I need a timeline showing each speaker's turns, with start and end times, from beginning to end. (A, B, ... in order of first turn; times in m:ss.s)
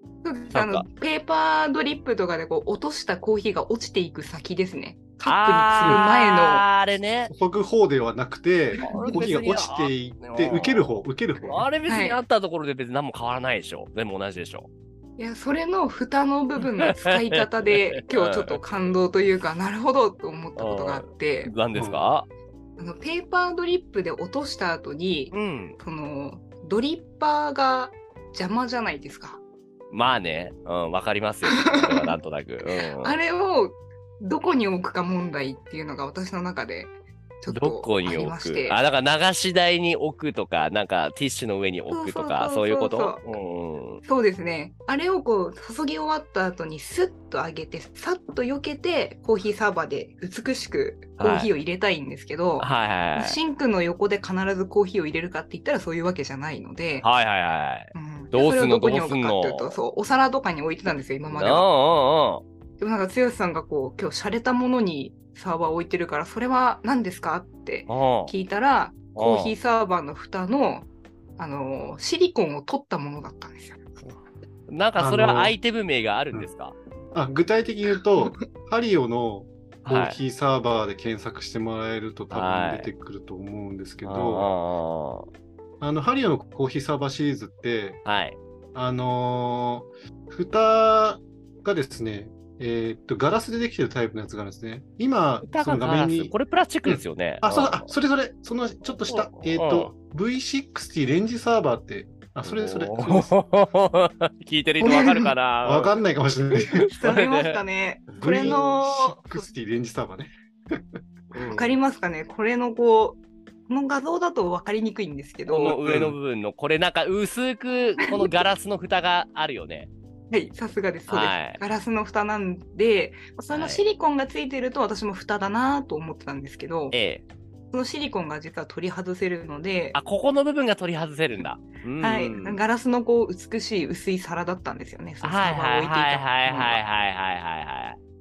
0:00.2-0:06.6 A
0:00.5-0:00.9 B
0:05.2-0:07.3 B
0:05.8-0:06.0 C
0:07.3-0:11.6 C
0:08.8-0:14.7 B
0:08.8-0:09.2 A
0:11.8-0:12.2 A
0:15.2-0:21.5 A
0:16.8-0:18.5 B
0:20.6-0:22.3 B
0:21.7-0:22.0 C
0:22.8-0:29.4 A
0:25.3-0:25.8 B
0:29.9-0:33.2 B
0:31.4-0:32.2 A
0:33.0-0:38.8 A
0:37.5-0:44.0 B
0:41.9-0:43.2 A
0:44.0-0:57.1 A
0:51.2-0:51.5 B
0:52.6-0:53.4 B
0:57.0-0:59.8 B
0:57.9-1:01.7 A
1:01.3-1:02.4 B
1:02.8-1:14.1 A
1:07.9-1:08.3 B
1:09.1-1:09.5 B
1:14.7-1:16.8 B
1:15.0-1:15.6 C
1:17.1-1:24.5 C
1:19.8-1:20.2 B
1:22.3-1:22.9 B
1:24.0-1:25.3 B
1:25.8-1:28.0 C
1:28.0-1:28.4 B
1:28.7-1:43.3 C
1:35.4-1:37.9 B
1:38.8-1:39.9 B
1:42.4-1:45.9 B
1:44.8-1:46.9 C
1:44.9-1:45.3 A
1:46.8-1:47.6 B
1:47.0-1:49.4 A
1:48.1-1:48.5 B
1:48.2-1:50.8 C
1:51.3-1:51.7 B
1:51.5-1:55.8 A
1:55.4-1:59.9 B
1:55.8-1:56.2 C
2:00.3-2:06.9 A
2:01.1-2:01.6 B
2:03.5-2:03.8 B
2:06.9-2:07.2 B
2:07.7-2:10.0 A
2:09.9-2:12.6 B
2:12.0-2:16.8 A
2:15.2-2:18.0 B